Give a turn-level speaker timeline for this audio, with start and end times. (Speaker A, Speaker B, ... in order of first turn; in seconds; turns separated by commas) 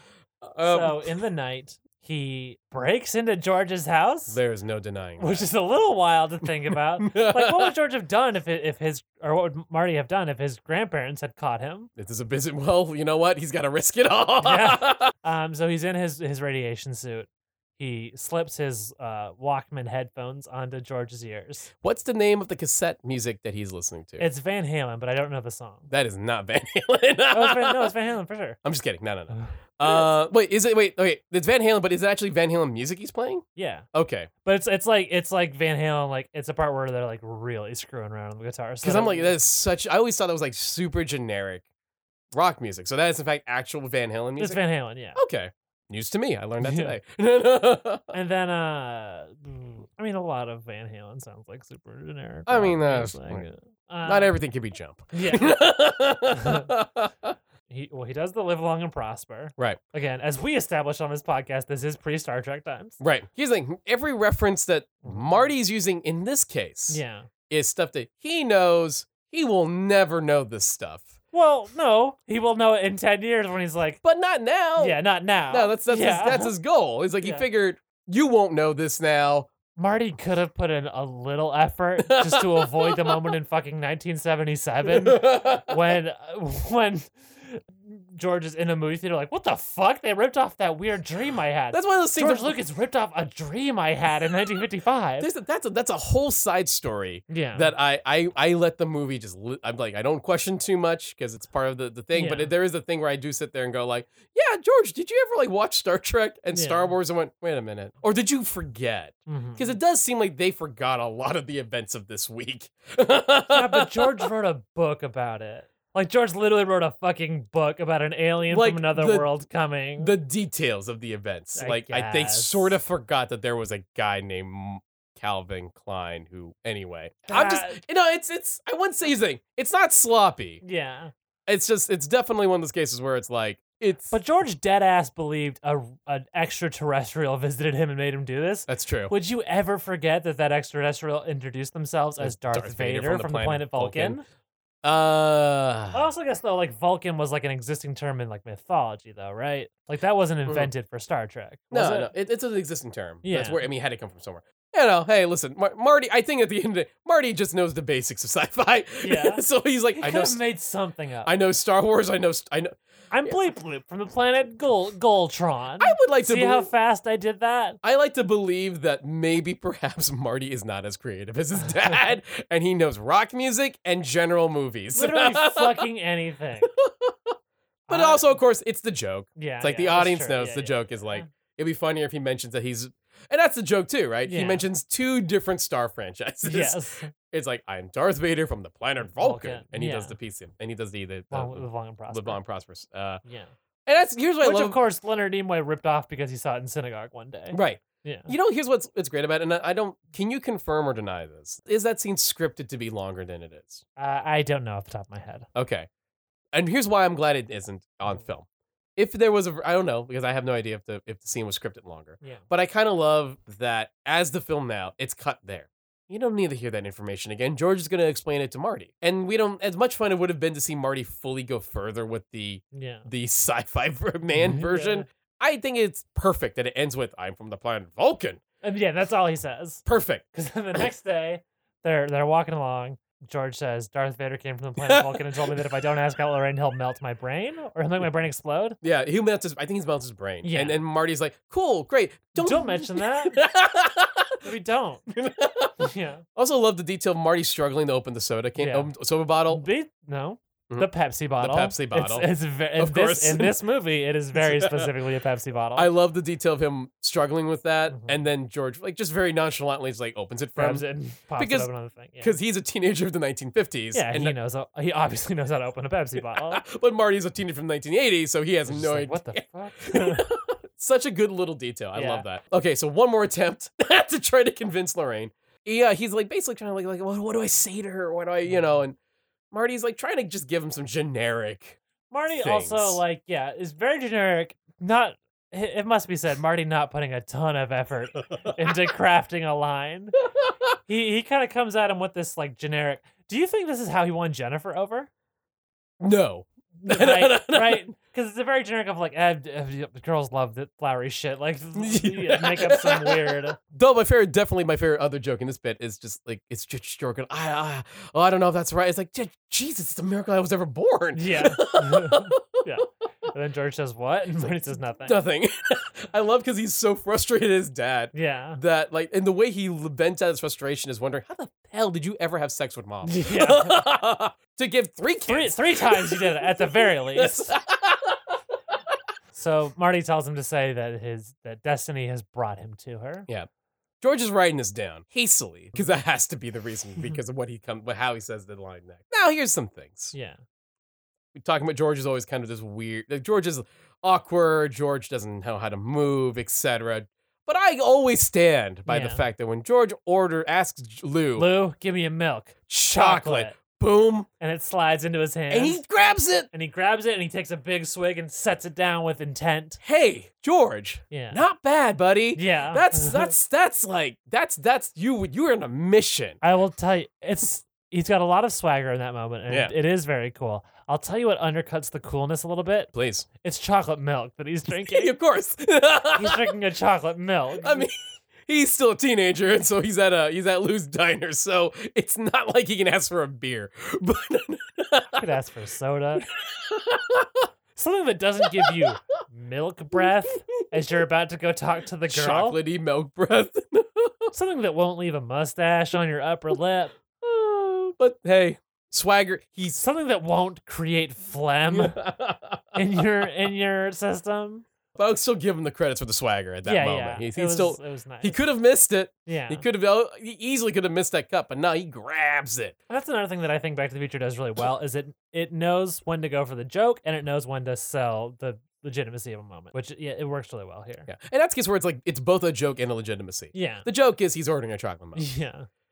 Speaker A: 0.4-1.1, Speaker B: 0.6-4.4, Speaker A: 4.3-5.4, Speaker B: 5.2-11.9, Speaker A: 6.7-7.7, Speaker A: 12.0-15.1, Speaker B: 14.4-21.7, Speaker A: 21.8-24.3, Speaker B: 24.2-25.9, Speaker A: 25.9-27.9, Speaker B: 27.3-28.6, Speaker A: 28.6-34.3, Speaker B: 29.3-30.1, Speaker B: 33.6-33.9, Speaker B: 34.4-39.4, Speaker A: 38.8-41.6, Speaker A: 42.3-44.6, Speaker B: 44.4-45.2, Speaker A: 45.1-48.1, Speaker B: 46.6-47.0, Speaker B: 48.1-54.4, Speaker A: 52.5-53.5, Speaker A: 54.0-57.4, Speaker B: 55.1-55.6, Speaker B: 56.4-56.7, Speaker B: 57.7-63.0, Speaker A: 63.0-71.2, Speaker B: 65.0-65.5, Speaker B: 66.9-67.3, Speaker B: 71.3-74.0, Speaker A: 74.0-79.5, Speaker B: 74.8-76.5, Speaker B: 77.2-77.5, Speaker B: 79.8-95.3, Speaker A: 82.0-83.2, Speaker A: 84.9-85.9, Speaker A: 91.7-92.6, Speaker A: 95.2-114.3, Speaker B: 97.3-97.8, Speaker B: 102.1-102.5, Speaker B: 106.5-107.0, Speaker B: 109.3-109.8, Speaker B: 113.5-120.1, Speaker A: 118.5-119.3, Speaker A: 120.0-130.6, Speaker B: 121.6-122.8, Speaker B: 127.3-127.8, Speaker B: 130.6-131.1, Speaker A: 131.5-134.2, Speaker B: 134.1-144.2, Speaker A: 138.7-139.1, Speaker A: 142.2-144.2, Speaker A: 144.8-146.1, Speaker B: 145.9-152.1, Speaker A: 150.5-150.7, Speaker A: 151.7-160.4, Speaker B: 153.2-153.7, Speaker B: 159.0-161.3, Speaker A: 161.2-163.4, Speaker B: 163.1-167.8, Speaker A: 165.8-166.7, Speaker A: 167.8-175.9, Speaker B: 171.6-172.1, Speaker B: 174.9-176.7, Speaker A: 176.7-177.3, Speaker B: 177.9-178.4, Speaker A: 177.9-193.2, Speaker B: 179.4-181.3, Speaker B: 184.2-184.7, Speaker B: 186.4-187.1, Speaker B: 189.1-190.2, Speaker B: 191.3-192.4, Speaker B: 193.2-193.5, Speaker A: 193.9-194.8, Speaker B: 194.4-198.3, Speaker A: 197.5-203.8, Speaker B: 204.0-205.5, Speaker A: 205.6-205.9, Speaker A: 206.5-228.4, Speaker B: 222.7-223.1, Speaker B: 224.3-225.1, Speaker B: 228.6-238.8, Speaker A: 229.9-230.2, Speaker A: 234.8-235.6, Speaker A: 238.8-244.4, Speaker B: 240.4-240.8, Speaker B: 242.4-243.4, Speaker B: 244.4-245.1, Speaker A: 245.1-249.7, Speaker B: 245.8-246.2, Speaker B: 248.6-248.9, Speaker B: 249.5-255.9, Speaker A: 250.7-253.6, Speaker A: 254.3-255.0, Speaker A: 255.8-264.4, Speaker B: 257.9-258.2, Speaker B: 260.6-262.4, Speaker B: 263.9-266.6, Speaker A: 266.2-279.0, Speaker B: 268.7-270.3, Speaker B: 271.9-272.3, Speaker B: 278.5-278.8, Speaker A: 279.5-281.8, Speaker B: 282.1-290.2, Speaker A: 282.3-283.0, Speaker A: 288.4-288.7, Speaker A: 290.4-290.8, Speaker B: 290.9-295.1, Speaker A: 296.0-297.9, Speaker B: 296.8-303.6, Speaker A: 301.8-312.6, Speaker B: 311.1-315.2, Speaker A: 314.4-328.4, Speaker B: 318.1-318.6, Speaker B: 323.0-323.8, Speaker B: 325.3-327.5, Speaker B: 329.3-333.3, Speaker A: 334.0-340.1, Speaker B: 340.1-340.4, Speaker A: 341.4-351.5, Speaker B: 348.9-349.2, Speaker B: 351.4-353.6, Speaker A: 352.7-354.3, Speaker B: 354.4-355.8, Speaker A: 355.5-356.5, Speaker B: 356.5-359.8, Speaker A: 359.8-366.4, Speaker B: 361.1-361.4, Speaker B: 362.4-363.3, Speaker B: 366.4-375.1, Speaker A: 369.5-369.7, Speaker A: 372.9-373.3, Speaker A: 374.7-376.5, Speaker B: 376.1-377.9, Speaker A: 377.6-385.3, Speaker B: 385.2-386.3, Speaker A: 386.3-387.5, Speaker B: 387.8-392.6, Speaker A: 388.4-389.0, Speaker A: 389.9-390.3, Speaker A: 392.1-394.3, Speaker B: 394.3-396.9, Speaker A: 397.2-399.8, Speaker B: 399.8-402.0, Speaker A: 401.7-403.0, Speaker B: 402.8-404.7, Speaker A: 404.9-412.8, Speaker B: 406.6-408.4, Speaker B: 409.3-409.7, Speaker B: 412.9-421.1, Speaker A: 421.1-425.3, Speaker B: 423.5-423.9, Speaker B: 425.2-425.7